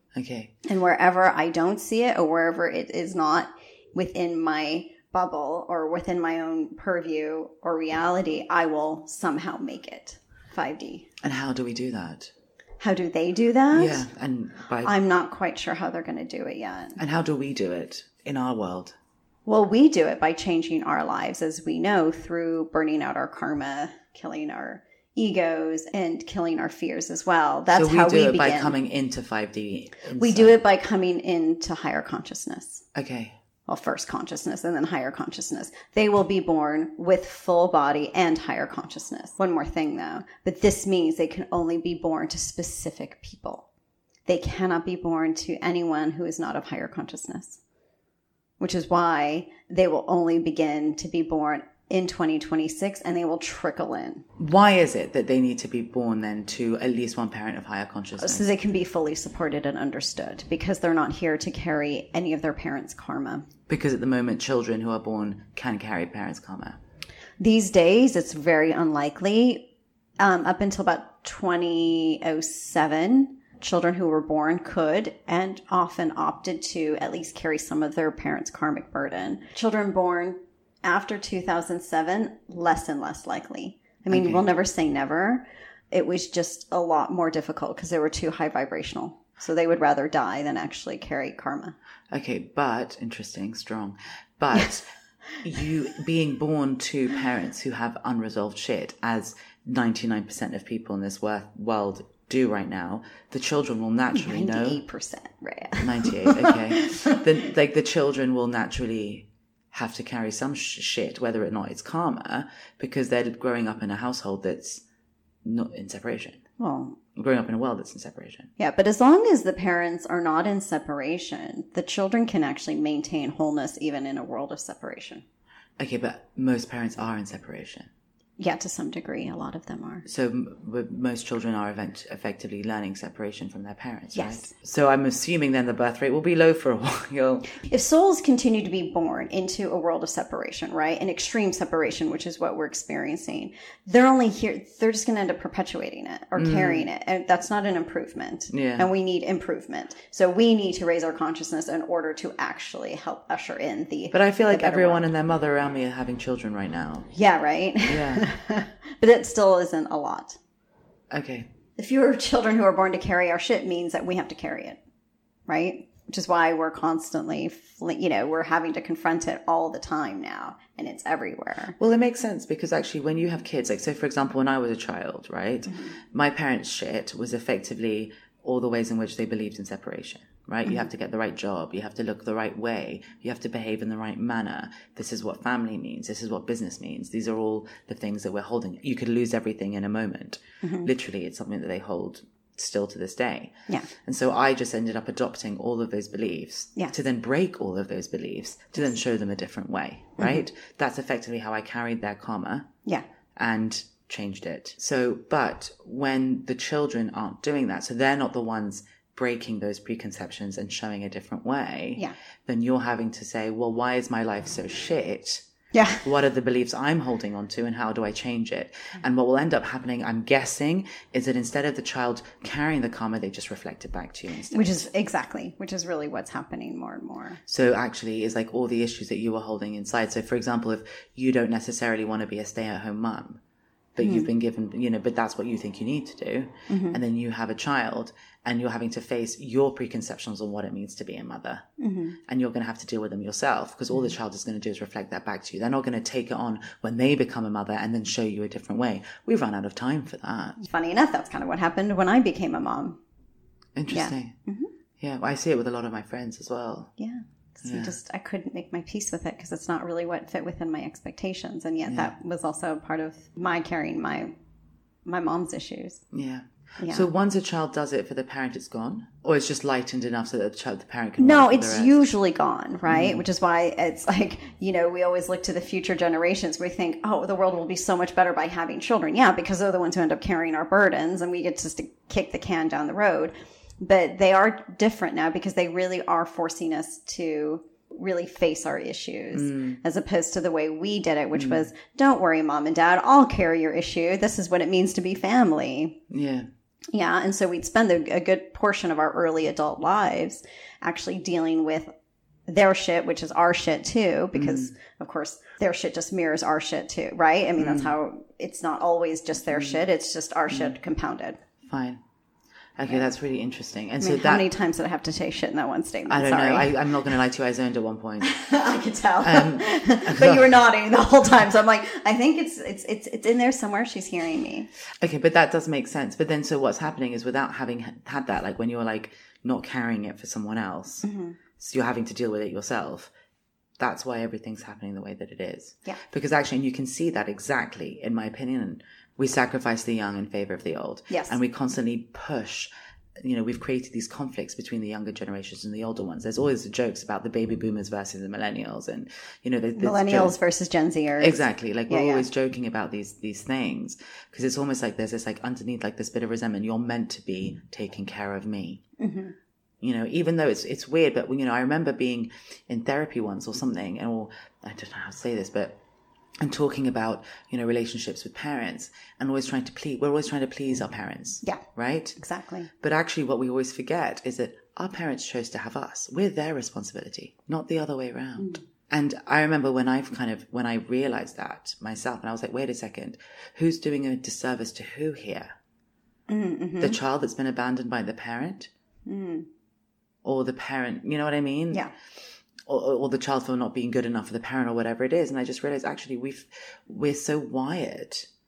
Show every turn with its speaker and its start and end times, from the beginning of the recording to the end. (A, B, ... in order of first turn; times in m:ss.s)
0:00.1-0:00.5 A
0:00.6-0:11.1 B
0:11.2-0:12.3 A
0:12.8-0:14.1 B
0:13.7-0:15.0 A
0:14.8-0:17.0 B
0:17.0-0:19.0 A
0:19.5-0:28.8 B
0:27.7-0:30.6 A
0:30.2-0:32.8 B
0:32.9-0:33.4 A
0:33.7-0:43.7 B
0:44.2-0:47.6 B
0:48.6-0:54.2 B
0:54.4-0:58.5 A
0:58.2-1:03.5 B
1:03.7-1:06.8 A
1:07.4-1:31.8 B
1:24.1-1:24.4 A
1:32.1-1:34.9 A
1:35.4-1:44.8 A
1:44.1-1:47.2 B
1:45.8-1:54.8 A
1:55.4-1:56.4 A
1:56.6-1:57.0 B
1:57.2-1:58.5 A
1:58.6-2:05.2 B
2:05.8-2:07.9 A
2:08.4-2:10.0 B
2:10.0-2:17.5 A
2:14.2-2:14.5 B
2:17.5-2:35.0 B
2:26.4-2:26.9 A
2:28.5-2:28.9 A
2:34.1-2:37.1 A
2:37.1-2:40.4 B
2:37.8-2:38.3 A
2:41.1-2:41.5 A
2:41.8-2:44.8 B
2:45.5-2:51.8 B
2:51.8-3:22.7 A
2:55.7-2:56.0 B
3:10.6-3:10.9 B
3:20.2-3:20.4 B
3:23.4-3:35.4 A
3:35.7-3:36.0 B
3:36.0-3:44.8 A
3:44.5-3:47.4 B
3:47.5-3:53.4 A
3:54.0-4:01.7 A
3:54.0-3:54.3 B
3:56.7-3:57.0 B
4:01.8-4:02.2 B
4:02.2-4:10.6 A
4:10.6-4:13.0 B
4:13.8-4:14.4 A
4:13.9-4:14.7 B
4:15.0-4:16.9 A
4:17.0-4:24.3 B
4:17.6-4:18.0 A
4:21.9-4:22.1 A
4:25.0-4:26.0 B
4:26.1-4:32.0 A
4:26.8-4:27.1 B
4:31.2-4:56.0 B
4:32.9-4:33.2 A
4:49.3-4:49.8 A
4:51.3-4:51.7 A
4:56.1-4:56.5 A
4:56.9-5:01.9 B
5:02.5-5:11.4 B
5:04.3-5:04.7 A
5:07.6-5:07.9 A
5:11.6-5:12.0 A
5:12.8-5:14.5 A
5:14.0-5:16.8 B
5:16.1-5:18.3 A
5:18.2-5:24.7 B
5:19.2-5:20.6 A
5:25.0-5:31.0 A
5:31.0-5:31.4 B
5:31.6-5:33.1 A
5:33.8-5:42.7 A
5:41.1-5:41.4 B
5:43.2-5:50.4 A
5:49.8-5:52.3 B
5:51.2-5:58.8 A
5:59.0-5:59.4 B
5:59.8-6:05.8 A
6:06.4-6:12.2 A
6:12.2-6:12.7 B
6:12.8-6:25.6 A
6:18.4-6:18.6 B
6:26.3-6:27.0 B
6:26.8-6:28.7 A
6:29.1-6:29.5 B
6:30.2-6:31.9 A
6:32.6-6:38.3 A